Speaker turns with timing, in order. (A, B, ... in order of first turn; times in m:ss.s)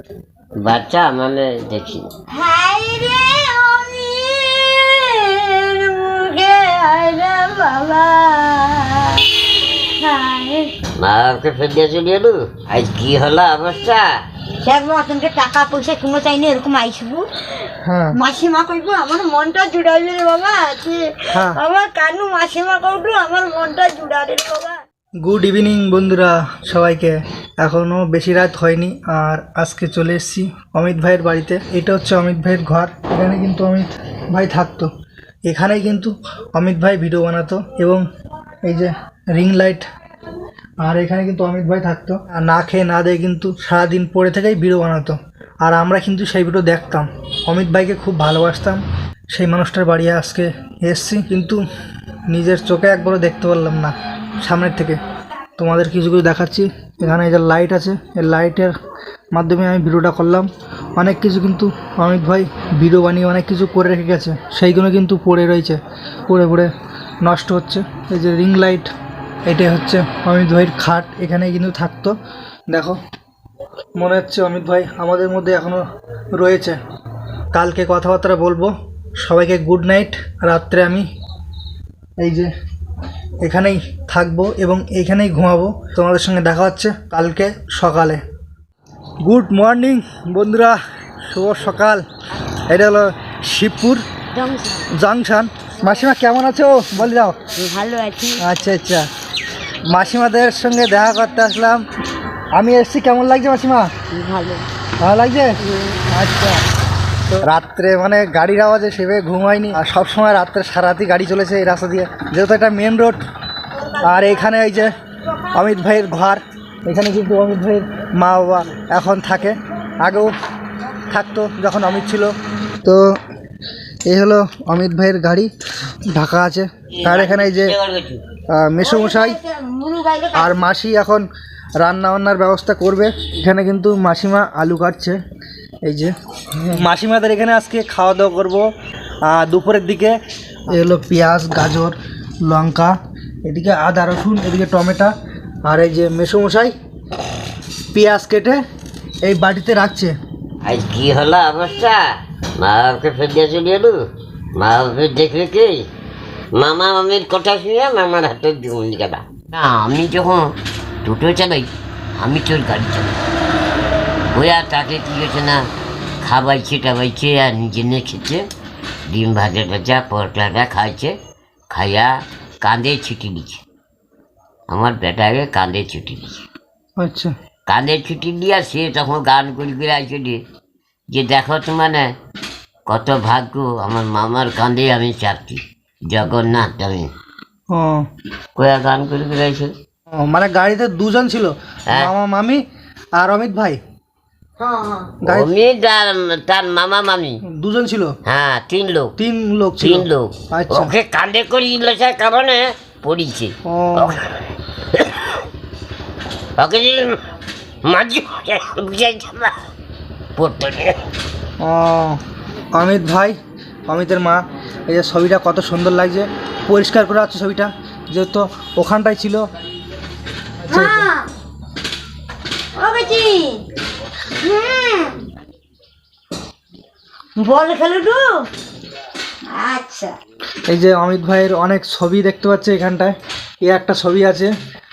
0:00.6-0:02.1 A
0:02.3-0:10.7 B
0:11.0-0:14.1 A
0:14.6-0:17.2 B
0:17.8-0:18.2 C
0:18.1-0:24.8 B
0:21.3-0:21.6 C
0:25.2-0:34.9 C
0:35.5-0:38.0 C
0:38.6-0:39.9 C
0:40.8-0:51.6 C
0:52.3-0:55.0 C
0:55.6-0:58.8 C
0:59.3-1:06.7 C
1:07.2-1:08.9 C
1:09.5-1:12.1 C
1:12.7-1:13.0 C
1:14.0-1:15.8 C
1:16.4-1:16.8 C
1:17.5-1:21.1 C
1:22.2-1:22.5 C
1:23.4-1:28.2 C
1:29.2-1:32.0 C
1:32.7-1:34.0 C
1:34.3-1:34.9 B
1:34.9-1:37.4 C
1:37.5-1:38.5 B
1:38.4-1:39.1 C
1:39.9-1:41.8 C
1:42.5-1:43.9 C
1:44.1-1:44.7 B
1:45.0-1:46.6 C
1:45.6-1:46.0 B
1:47.3-1:53.2 C
1:54.0-1:54.9 C
1:55.5-2:00.3 C
2:01.1-2:03.2 C
2:04.0-2:05.5 C
2:06.1-2:07.7 C
2:06.9-2:08.2 A
2:08.5-2:09.4 C
2:08.8-2:10.6 B
2:10.3-2:11.2 C
2:11.8-2:15.2 C
2:15.9-2:16.1 C
2:16.7-2:18.7 C
2:19.2-2:20.1 C
2:20.7-2:25.1 C
2:25.6-2:26.7 C
2:27.9-2:28.6 C
2:29.2-2:30.1 C
2:30.6-2:32.0 A
2:32.6-2:34.0 A
2:34.6-2:35.8 A
2:36.5-2:43.2 A
2:44.3-2:45.7 A
2:46.2-2:48.4 A
2:49.1-2:51.1 A
2:51.7-2:53.6 A
2:54.7-2:56.4 A
2:57.0-2:57.3 C
2:57.7-3:00.4 A
3:01.1-3:02.1 A
3:02.9-3:07.1 A
3:07.7-3:08.0 C
3:08.6-3:09.7 A
3:10.1-3:12.6 C
3:13.2-3:13.8 C
3:14.6-3:15.1 B
3:15.2-3:15.5 C
3:15.2-3:17.4 A
3:17.5-3:18.1 C
3:18.2-3:19.1 A
3:19.2-3:20.9 C
3:19.8-3:24.4 A
3:23.6-3:24.2 C
3:24.9-3:25.4 A
3:26.6-3:27.2 A
3:27.8-3:29.5 A
3:30.4-3:31.0 A
3:31.6-3:32.2 C
3:32.7-3:33.4 C
3:33.9-3:39.4 C
3:40.6-3:41.1 C
3:40.7-3:41.3 B
3:42.8-3:43.6 B
3:44.4-3:45.2 B
3:47.4-3:48.3 B
3:49.5-3:50.1 B
3:50.7-3:54.5 C